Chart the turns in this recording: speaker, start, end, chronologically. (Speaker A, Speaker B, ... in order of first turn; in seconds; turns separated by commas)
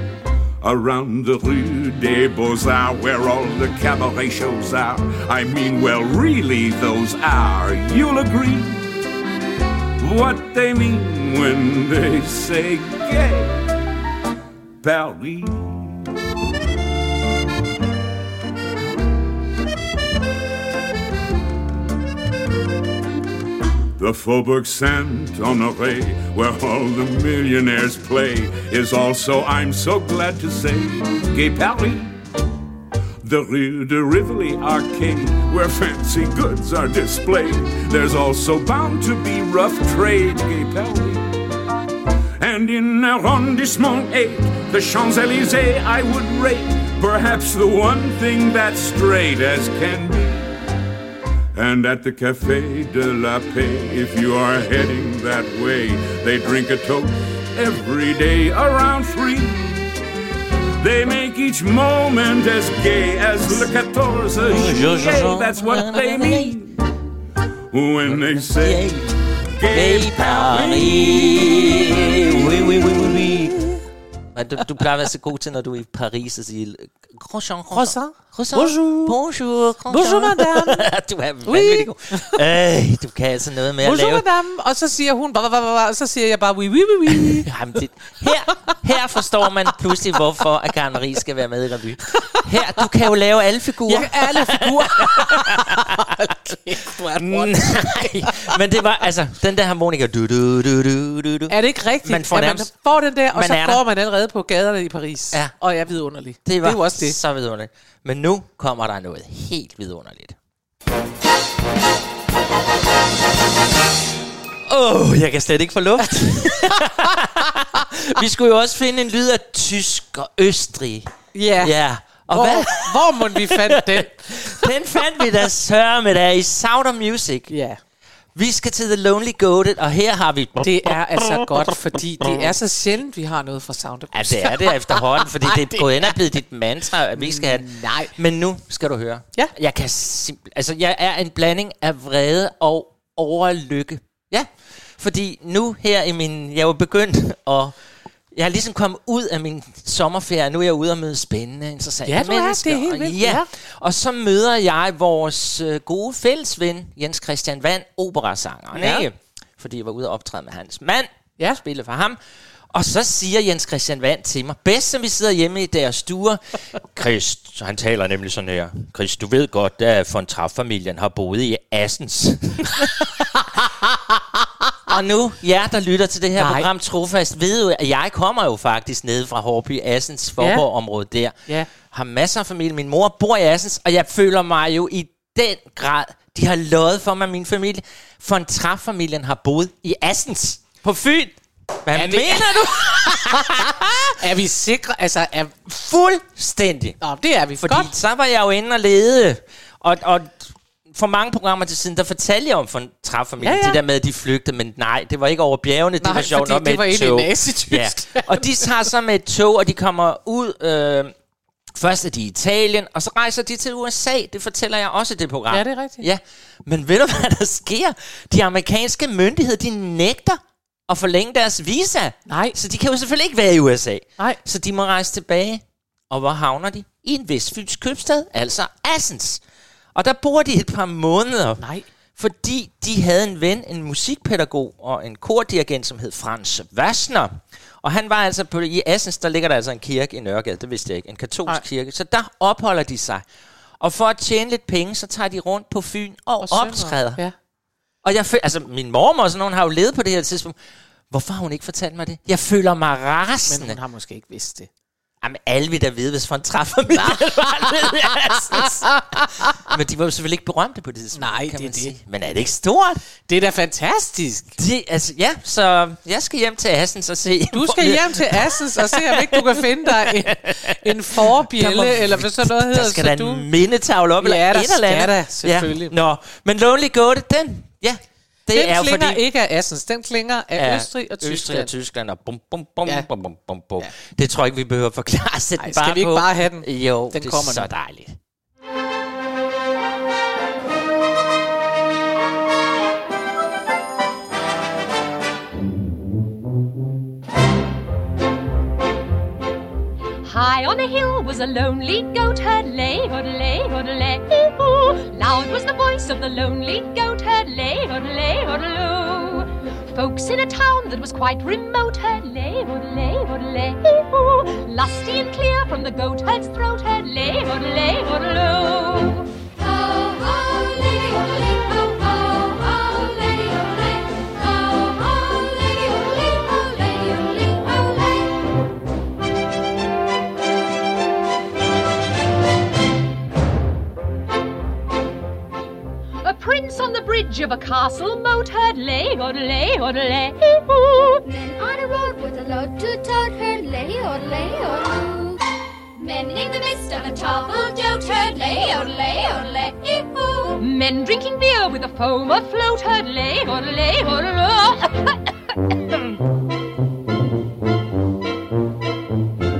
Speaker A: 0.6-8.9, Speaker A: 10.0-13.5, Speaker A: 14.8-16.0, Speaker A: 24.0-32.2, Speaker A: 33.2-41.4, Speaker A: 42.4-50.5, Speaker A: 51.5-59.8, Speaker A: 60.8-66.7, Speaker B: 64.3-66.6, Speaker A: 67.7-71.7, Speaker B: 68.0-73.6, Speaker B: 74.3-84.3, Speaker C: 77.7-79.2, Speaker C: 79.8-80.9, Speaker C: 81.4-82.4, Speaker C: 83.8-87.5, Speaker B: 87.1-96.1, Speaker C: 88.2-88.7, Speaker C: 92.3-92.8, Speaker C: 93.9-98.5, Speaker B: 97.2-102.7, Speaker C: 101.5-107.2, Speaker B: 103.3-103.8, Speaker B: 106.4-110.3, Speaker B: 114.6-127.5, Speaker C: 116.0-117.0, Speaker C: 121.3-124.7, Speaker C: 127.5-127.8, Speaker B: 128.3-131.7, Speaker C: 130.6-136.2, Speaker B: 132.2-132.4, Speaker B: 134.1-147.8, Speaker C: 137.1-138.1, Speaker B: 148.3-173.1, Speaker C: 152.0-153.5, Speaker C: 158.7-159.1, Speaker B: 174.9-193.9, Speaker C: 176.4-176.7, Speaker C: 180.4-180.7, Speaker C: 191.9-195.7, Speaker B: 195.7-197.0, Speaker C: 197.0-197.9, Speaker B: 197.6-211.1, Speaker C: 203.4-203.8, Speaker C: 206.0-208.9, Speaker B: 211.7-229.4, Speaker C: 215.5-216.0, Speaker C: 222.3-222.6, Speaker B: 229.9-243.2, Speaker C: 231.6-231.8, Speaker B: 243.8-247.2, Speaker C: 246.4-247.3, Speaker B: 248.0-250.6, Speaker B: 251.1-253.8, Speaker C: 253.5-254.7, Speaker B: 255.2-263.0, Speaker C: 257.1-257.9, Speaker C: 258.5-259.6, Speaker C: 261.1-262.0, Speaker C: 263.2-264.6, Speaker B: 264.6-279.2, Speaker C: 267.5-273.4, Speaker C: 274.2-275.9, Speaker C: 278.5-281.7, Speaker B: 280.6-288.2, Speaker C: 285.6-287.7, Speaker D: 300.2-319.3, Speaker E: 319.6-328.3, Speaker D: 336.2-340.6, Speaker E: 341.2-345.4, Speaker E: 346.0-350.6, Speaker D: 350.6-355.3